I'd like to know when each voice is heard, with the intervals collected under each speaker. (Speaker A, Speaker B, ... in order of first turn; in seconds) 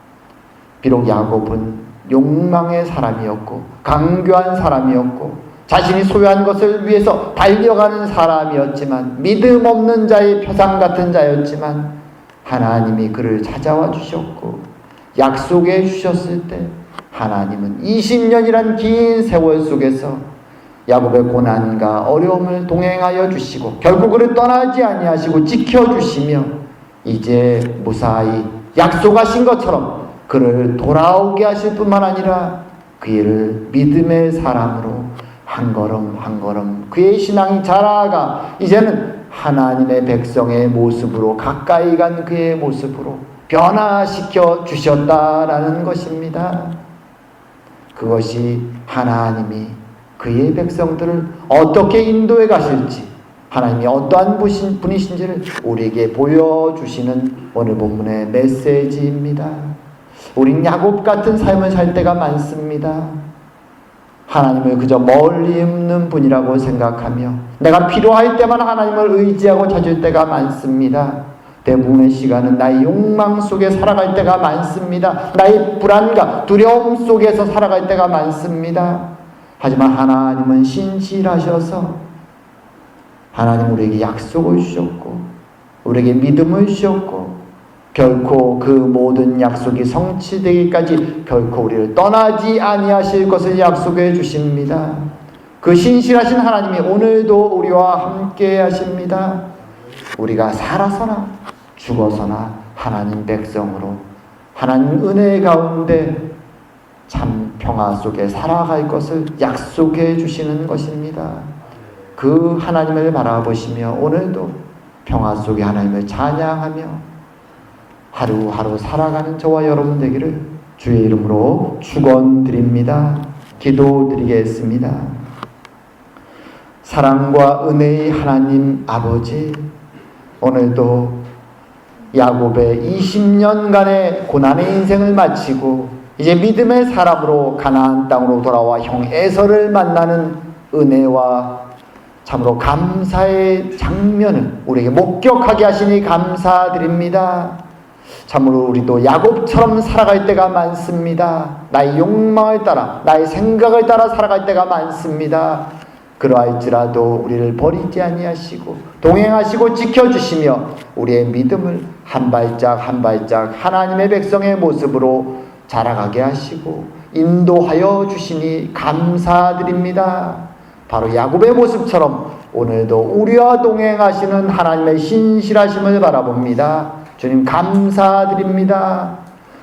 Speaker A: 0.8-20.3, 20.9-46.8, 47.9-59.8, 60.4-63.2, 64.3-82.0, 83.3-85.3, 85.8-87.4, 87.9-99.5, 100.2-104.0, 104.5-106.3, 107.1-111.5, 112.2-117.0, 118.1-125.2, 126.8-129.7, 130.4-131.2, 132.1-141.7, 142.2-147.6, 148.3-179.2